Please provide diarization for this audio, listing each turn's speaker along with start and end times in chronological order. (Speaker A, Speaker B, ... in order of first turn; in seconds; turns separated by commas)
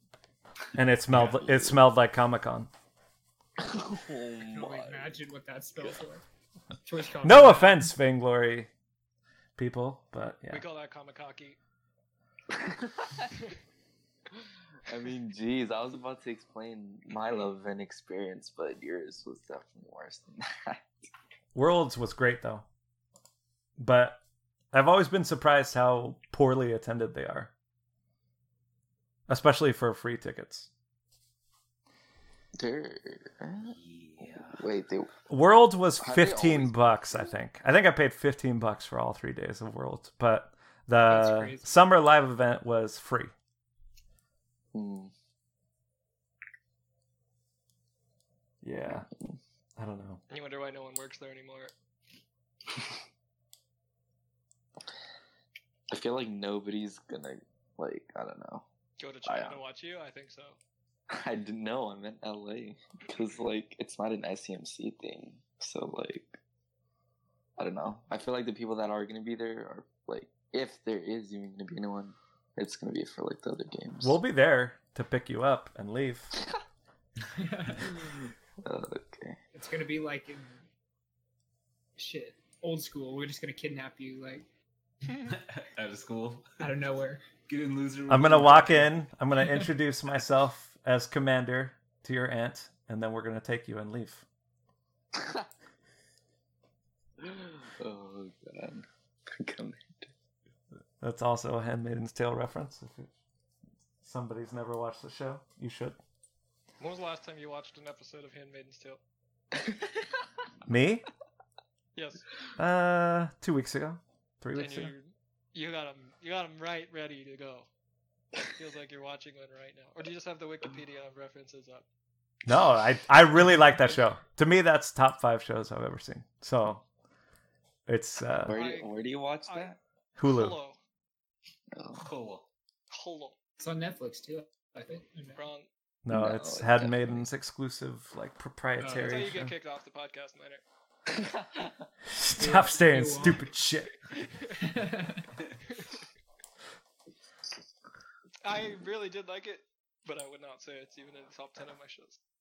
Speaker A: 0.8-2.7, Speaker B: 1.2-1.8, Speaker B: 3.6-5.2, Speaker C: 4.4-6.2, Speaker C: 6.8-7.9, Speaker A: 7.2-8.7, Speaker A: 9.6-10.7, Speaker D: 10.5-11.6, Speaker B: 12.5-13.3, Speaker B: 14.8-20.9, Speaker A: 21.6-22.7, Speaker A: 23.8-24.2, Speaker A: 24.7-27.5, Speaker A: 29.3-30.7, Speaker B: 32.6-33.8, Speaker E: 33.7-34.7, Speaker B: 34.3-35.1, Speaker A: 35.3-43.3, Speaker B: 36.0-37.3, Speaker C: 41.0-41.8, Speaker B: 44.7-45.1, Speaker A: 48.6-49.1, Speaker A: 49.8-50.2, Speaker D: 50.3-51.7, Speaker B: 55.9-58.6, Speaker D: 59.0-60.6, Speaker B: 59.2-59.6, Speaker B: 61.1-66.4, Speaker B: 67.6-74.2, Speaker A: 74.0-76.3, Speaker C: 77.3-78.0, Speaker B: 78.6-79.4, Speaker C: 79.5-80.7, Speaker C: 82.0-84.5, Speaker E: 85.3-86.5, Speaker C: 86.6-87.2, Speaker E: 87.5-88.9, Speaker A: 88.1-94.2, Speaker B: 95.1-95.5, Speaker B: 97.2-100.1, Speaker A: 101.0-103.1, Speaker A: 104.0-106.0, Speaker D: 106.8-109.0, Speaker A: 110.7-111.1, Speaker D: 112.0-112.3, Speaker A: 112.6-114.9, Speaker D: 114.5-117.7, Speaker D: 118.5-121.9, Speaker A: 122.5-126.8, Speaker A: 127.9-128.6, Speaker B: 128.4-129.8, Speaker D: 128.5-128.9, Speaker D: 129.5-130.8, Speaker A: 130.2-130.6, Speaker B: 131.7-132.1, Speaker E: 132.0-132.5, Speaker D: 132.9-133.4, Speaker C: 133.6-135.4, Speaker D: 135.4-135.7, Speaker A: 136.1-139.5, Speaker B: 136.1-137.3, Speaker C: 138.8-139.5, Speaker D: 139.0-140.6, Speaker B: 141.1-141.9, Speaker A: 142.1-143.9, Speaker C: 142.4-143.4, Speaker D: 144.1-144.6, Speaker C: 144.6-145.3, Speaker D: 145.7-146.0, Speaker D: 148.4-152.2